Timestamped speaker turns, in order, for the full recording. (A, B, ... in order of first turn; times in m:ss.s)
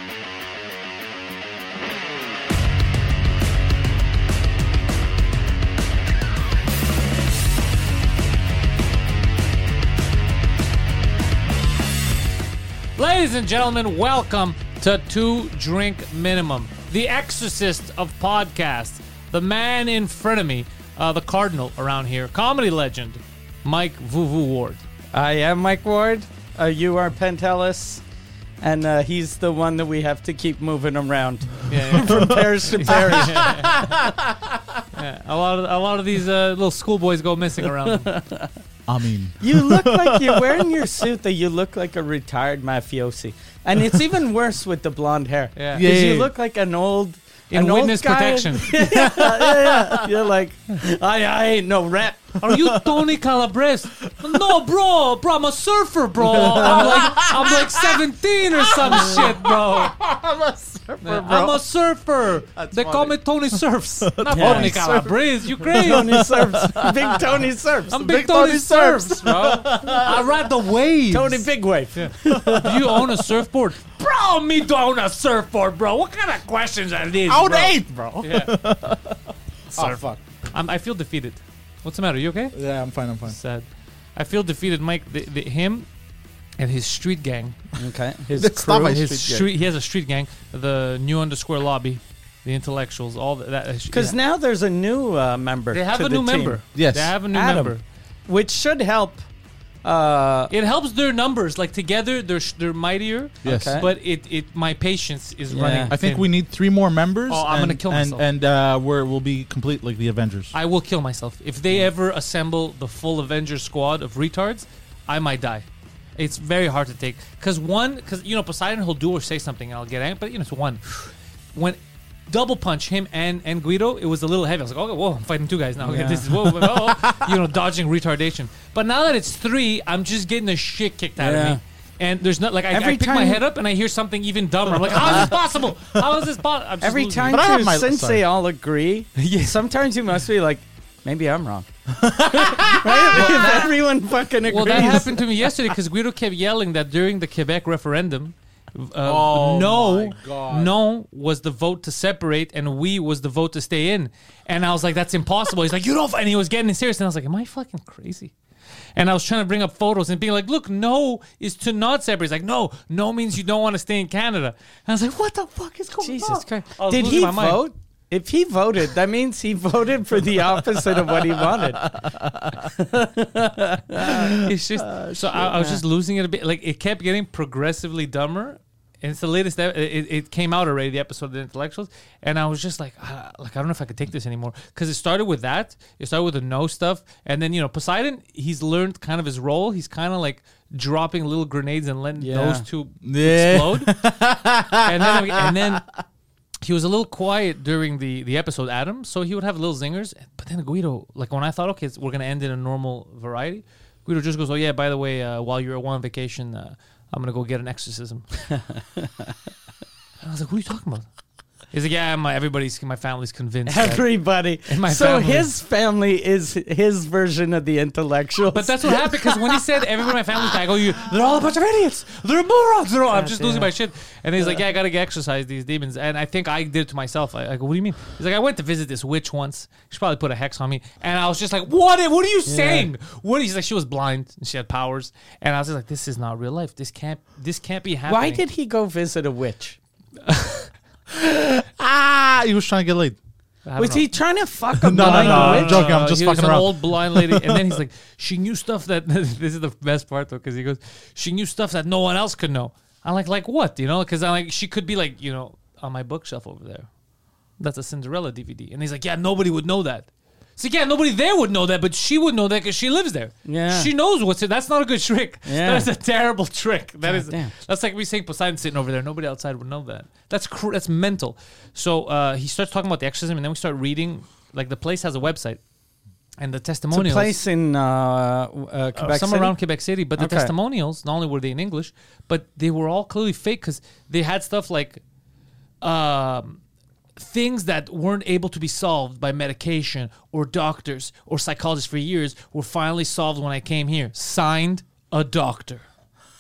0:13.0-0:24.8 A
0:25.1-0:28.0 B
0:28.6-0:33.6 B
0:31.7-0:33.9 A
0:32.0-0:34.8 C
0:34.9-0:38.1 A
0:37.9-0:38.5 B
0:38.9-0:41.0 C
0:39.4-0:52.3 B
0:45.6-0:45.9 A
0:45.7-0:46.3 C
0:47.5-0:49.1 A
0:49.0-0:50.1 C
0:52.4-1:00.0 A
0:52.4-0:53.1 C
0:54.0-0:54.7 C
0:56.2-1:01.6 C
1:01.0-1:06.3 A
1:02.4-1:07.4 C
1:04.3-1:04.8 B
1:05.7-1:08.0 B
1:07.9-1:18.5 A
1:07.9-1:10.5 C
1:11.1-1:13.0 B
1:12.3-1:13.1 C
1:17.3-1:19.2 C
1:19.7-1:22.6 A
1:19.7-1:20.2 C
1:22.5-1:23.4 C
1:23.3-1:25.9 A
1:26.6-1:27.6 A
1:27.8-1:29.0 B
1:28.3-1:29.5 C
1:28.8-1:34.2 A
1:33.9-1:36.6 B
1:35.7-1:37.8 A
1:36.7-1:37.2 C
1:37.3-1:37.8 B
1:38.3-1:39.2 B
1:39.8-1:40.5 B
1:40.5-1:46.3 A
1:43.4-1:43.8 C
1:43.4-1:43.9 B
1:45.5-1:45.9 B
1:45.9-1:50.5 C
1:47.3-1:48.3 A
1:50.5-1:55.6 A
1:56.2-2:17.4 A
2:05.8-2:06.3 B
2:06.4-2:07.4 C
2:11.2-2:11.6 B
2:12.7-2:13.4 B
2:15.1-2:15.3 C
2:16.8-2:21.7 B
2:17.3-2:18.2 C
2:19.2-2:19.6 A
2:21.9-2:23.7 C
2:22.2-2:25.2 B
2:23.1-2:23.8 A
2:24.5-2:38.3 A
2:24.7-2:25.1 C
2:29.0-2:30.8 C
2:39.0-2:47.6 A
2:46.0-2:51.9 B
2:51.1-2:52.7 C
2:52.6-2:54.3 B
2:54.1-2:55.4 C
2:54.3-3:14.0 A
2:55.4-2:55.8 B
3:12.2-3:12.6 B
3:13.0-3:15.8 C
3:14.8-3:15.8 A
3:16.6-3:28.3 A
3:28.5-3:29.3 B
3:30.2-3:31.1 A
3:31.7-3:34.1 A
3:33.7-3:39.6 B
3:34.6-3:35.5 A
3:38.5-3:58.4 A
3:43.1-3:43.7 B
3:52.5-3:52.9 B
3:58.1-3:59.8 B
4:00.2-4:00.7 A
4:01.1-4:03.2 C
4:03.7-4:04.1 A
4:03.8-4:05.9 B
4:04.8-4:07.8 C
4:04.9-4:16.9 A
4:17.6-4:35.6 A
4:23.4-4:23.9 B
4:25.5-4:25.9 B
4:27.0-4:27.5 B
4:36.4-4:37.4 A
4:36.9-4:39.6 B
4:39.0-4:45.0 A
4:40.2-4:40.5 B
4:45.8-4:46.6 A
4:47.2-4:55.8 A